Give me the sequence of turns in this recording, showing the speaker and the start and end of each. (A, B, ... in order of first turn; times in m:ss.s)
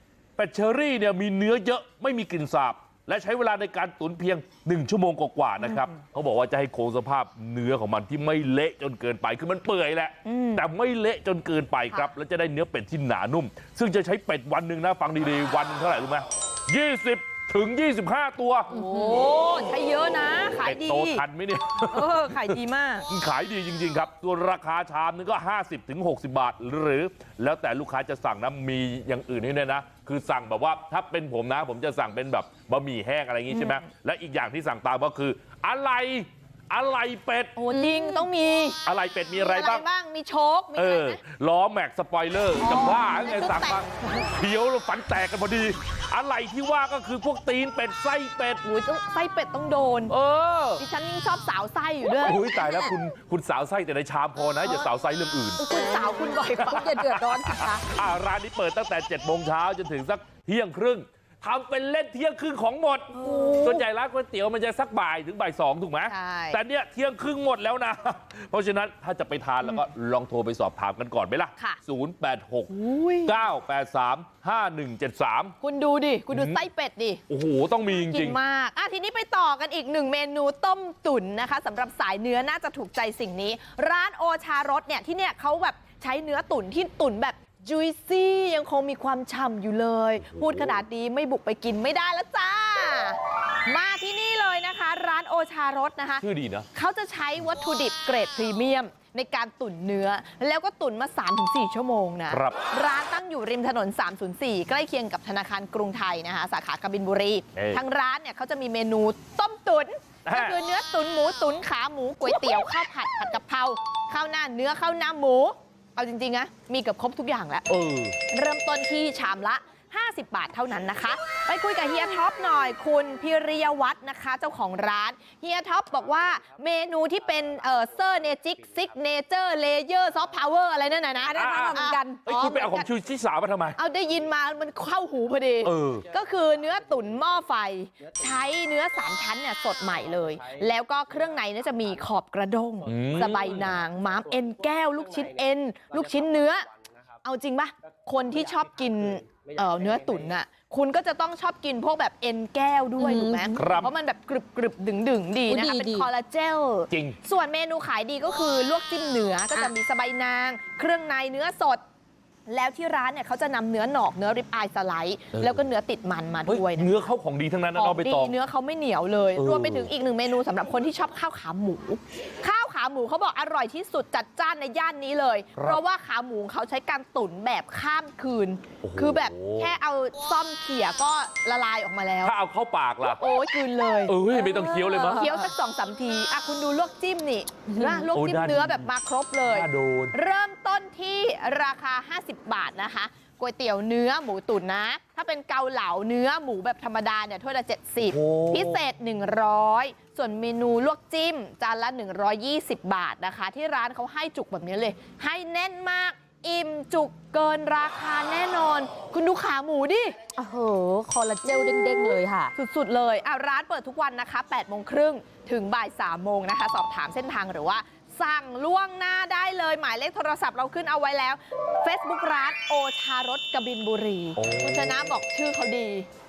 0:00.4-0:18.7 A
0:05.6-0:06.0 B
0:10.2-0:10.7 B
0:18.7-0:21.2 B
0:18.7-0:19.6 C
0:20.6-0:37.6 A
0:21.8-0:23.1 B
0:33.5-0:33.8 B
0:37.6-0:38.8 B
0:37.7-0:38.2 C
0:38.8-0:39.8 A
0:39.3-0:41.2 B
0:40.7-0:48.6 A
0:42.6-0:43.9 B
0:48.6-0:50.1 B
0:50.1-0:50.8 A
0:50.8-0:52.5 B
0:52.1-0:55.6 A
0:52.6-0:52.9 C
0:55.6-0:56.9 B
0:55.7-0:57.8 C
0:56.6-1:15.5 A
1:03.1-1:03.8 B
1:03.2-1:03.8 C
1:06.0-1:06.6 B
1:12.7-1:13.4 B
1:15.6-1:17.2 B
1:16.3-1:16.6 A
1:17.3-1:18.4 A
1:17.9-1:57.6 B
1:30.2-1:30.8 A
1:36.2-1:36.7 A
1:42.3-1:42.6 A
1:47.5-1:47.8 A
1:50.2-1:50.6 A
1:57.7-1:58.2 A
1:58.3-2:12.9 B
2:11.2-2:12.2 C
2:11.3-2:13.8 A
2:13.8-2:26.7 B
2:15.6-2:16.0 A
2:22.8-2:23.8 A
2:27.2-2:41.8 B
2:33.0-2:33.9 C
2:33.6-2:33.9 A
2:35.5-2:36.1 C
2:36.9-2:37.2 A
2:42.5-2:46.9 B
2:45.3-2:45.7 A
2:46.5-2:48.4 A
2:47.7-3:02.4 B
2:49.3-2:49.9 A
2:55.6-2:55.8 A
2:58.8-2:59.7 A
3:02.2-3:03.2 A
3:03.0-3:30.2 B
3:04.1-3:05.5 A
3:07.7-3:08.1 C
3:08.1-3:08.9 A
3:09.4-3:10.1 A
3:18.0-3:18.8 A
3:30.4-3:32.5 C
3:31.4-3:46.1 B
3:44.4-3:45.1 A